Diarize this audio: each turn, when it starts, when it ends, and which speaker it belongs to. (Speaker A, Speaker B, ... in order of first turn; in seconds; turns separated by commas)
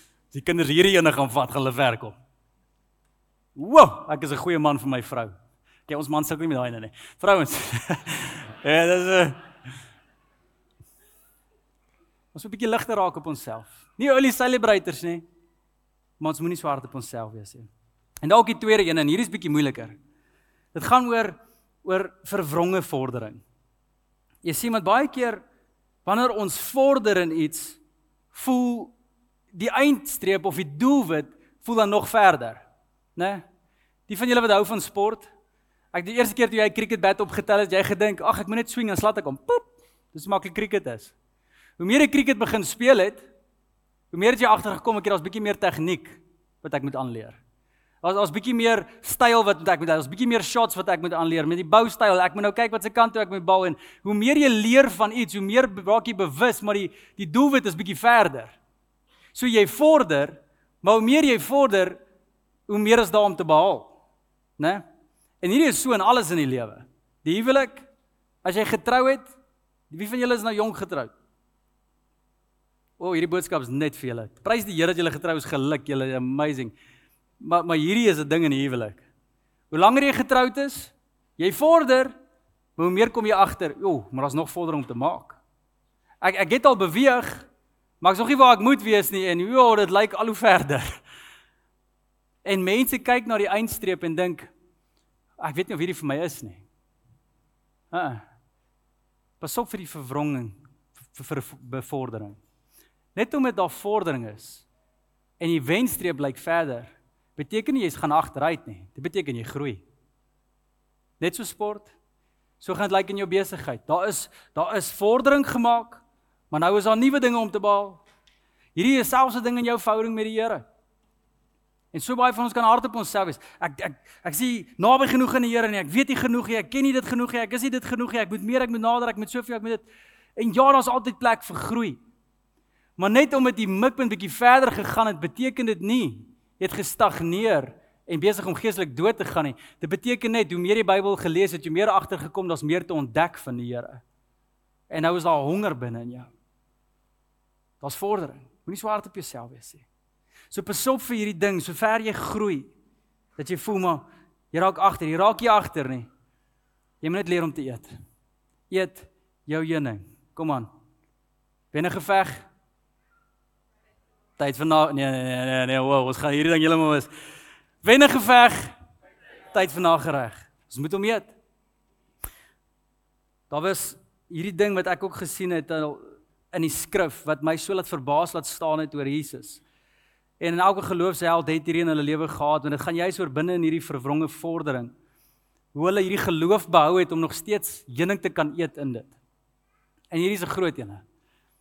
Speaker A: 0.3-2.1, Speaker A: 3.5-5.3, Speaker A: 5.9-9.4, Speaker A: 12.3-15.2, Speaker A: 16.2-17.7, Speaker A: 18.2-20.0, Speaker A: 20.7-23.4, Speaker A: 24.4-25.4, Speaker A: 26.0-27.8, Speaker A: 28.3-28.9, Speaker A: 29.5-32.6, Speaker A: 33.1-33.4, Speaker A: 34.1-35.3, Speaker A: 35.9-41.1, Speaker A: 41.8-43.2, Speaker A: 44.1-47.4, Speaker A: 48.0-58.6, Speaker A: 59.3-62.0, Speaker A: 62.7-64.0, Speaker A: 64.6-64.8, Speaker A: 65.4-67.9, Speaker A: 68.4-69.3, Speaker A: 69.9-71.1, Speaker A: 73.0-76.7, Speaker A: 77.4-79.0, Speaker A: 79.7-82.1, Speaker A: 82.8-85.4, Speaker A: 86.2-87.5, Speaker A: 88.0-90.8, Speaker A: 92.4-94.5, Speaker A: 95.4-96.6, Speaker A: 97.9-98.2, Speaker A: 99.4-102.4, Speaker A: 103.1-104.7, Speaker A: 105.4-109.8, Speaker A: 111.2-111.9, Speaker A: 112.6-118.0, Speaker A: 118.7-120.6, Speaker A: 121.9-132.0, Speaker A: 133.0-144.0, Speaker A: 144.9-146.3, Speaker A: 147.8-149.8, Speaker A: 150.5-152.7, Speaker A: 153.3-156.1, Speaker A: 157.0-157.9, Speaker A: 158.7-160.7, Speaker A: 161.7-162.5, Speaker A: 164.4-167.1, Speaker A: 167.8-168.7, Speaker A: 169.5-171.3, Speaker A: 173.5-179.6, Speaker A: 180.4-184.9, Speaker A: 185.7-189.1, Speaker A: 190.1-191.0